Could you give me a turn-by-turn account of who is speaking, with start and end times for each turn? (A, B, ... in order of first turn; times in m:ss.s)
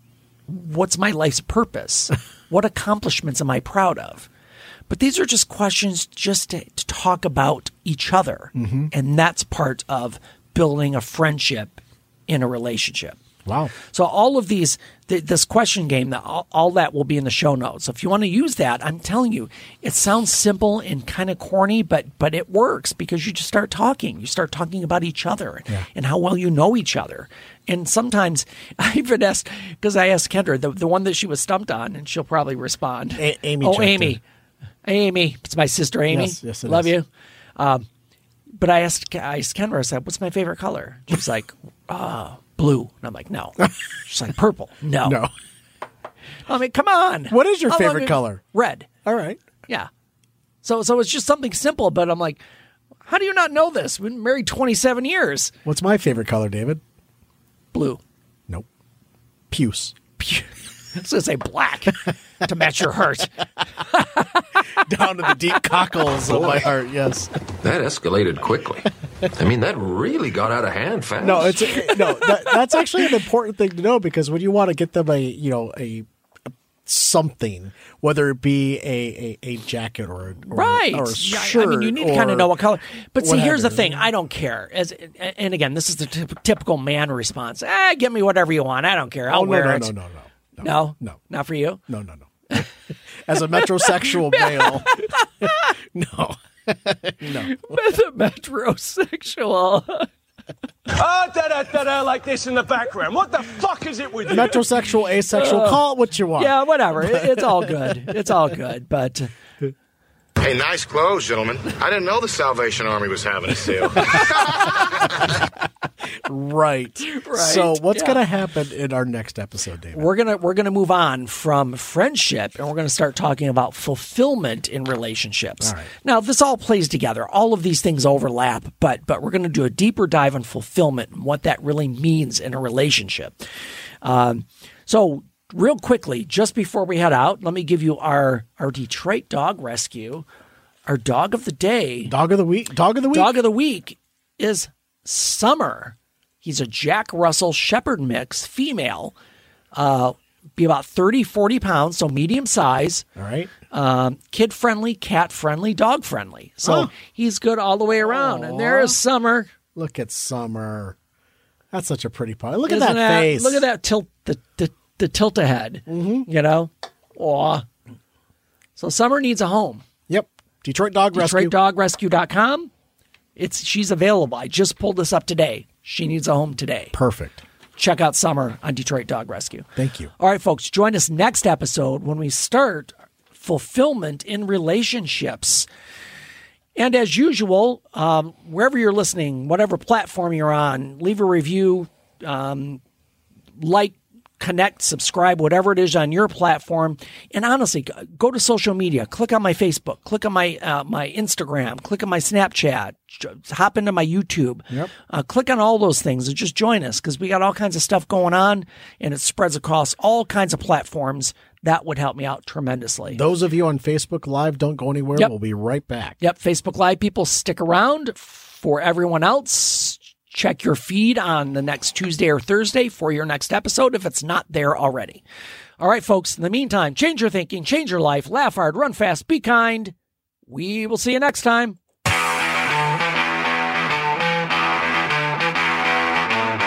0:00.5-0:04.3 A
0:04.9-0:13.2 A
0:08.5-0:08.9 B
0:13.4-0:13.7 B
0:13.8-0:34.2 A
0:33.2-0:34.2 B
0:34.8-0:37.0 A
0:36.1-0:36.9 B
0:37.6-0:37.8 A
0:38.6-0:45.2 A
0:45.0-0:45.3 B
0:46.5-0:48.9 A
0:47.3-0:48.4 B
0:49.0-0:49.4 B
0:50.6-0:52.4 A
0:53.0-0:55.5 A
0:55.6-0:56.8 B
0:57.7-0:58.0 A
0:59.5-1:00.0 B
1:00.2-1:03.3 A
1:03.9-1:04.6 A
1:04.7-1:07.3 B
1:07.6-1:11.9 C
1:11.2-1:22.6 B
1:20.5-1:29.9 A
1:23.2-1:24.1 B
1:29.3-1:31.2 B
1:30.6-1:31.8 A
1:31.9-1:32.7 B
1:33.2-1:37.8 B
1:33.6-1:35.7 A
1:37.2-1:40.1 A
1:40.9-1:44.6 D
1:44.3-1:48.2 B
1:45.3-1:45.8 A
1:46.3-1:49.3 A
1:50.4-1:54.8 E
1:56.1-2:00.1 B
1:57.1-1:58.2 A
1:59.9-2:13.4 A
2:05.6-2:05.9 B
2:14.0-2:20.2 A
2:20.8-2:22.1 A
2:22.0-2:23.4 B
2:23.1-2:29.1 A
2:29.7-2:33.0 A
2:33.2-2:33.5 B
2:33.7-2:39.5 A
2:36.6-2:36.9 B
2:38.0-2:39.0 B
2:39.7-2:41.0 B
2:41.7-2:43.6 B
2:42.6-2:47.6 A
2:45.9-2:46.3 B
2:48.8-2:49.8 A
2:50.1-2:51.6 B
2:51.1-2:52.7 A
2:53.4-2:56.9 A
2:56.9-2:57.4 B
2:57.8-2:59.6 A
2:59.8-3:00.1 B
3:00.2-3:05.7 A
3:06.8-3:12.8 A
3:13.6-3:33.2 A
3:33.1-3:36.2 B
3:36.2-3:45.2 A
3:45.8-3:49.9 A
3:50.5-3:51.8 A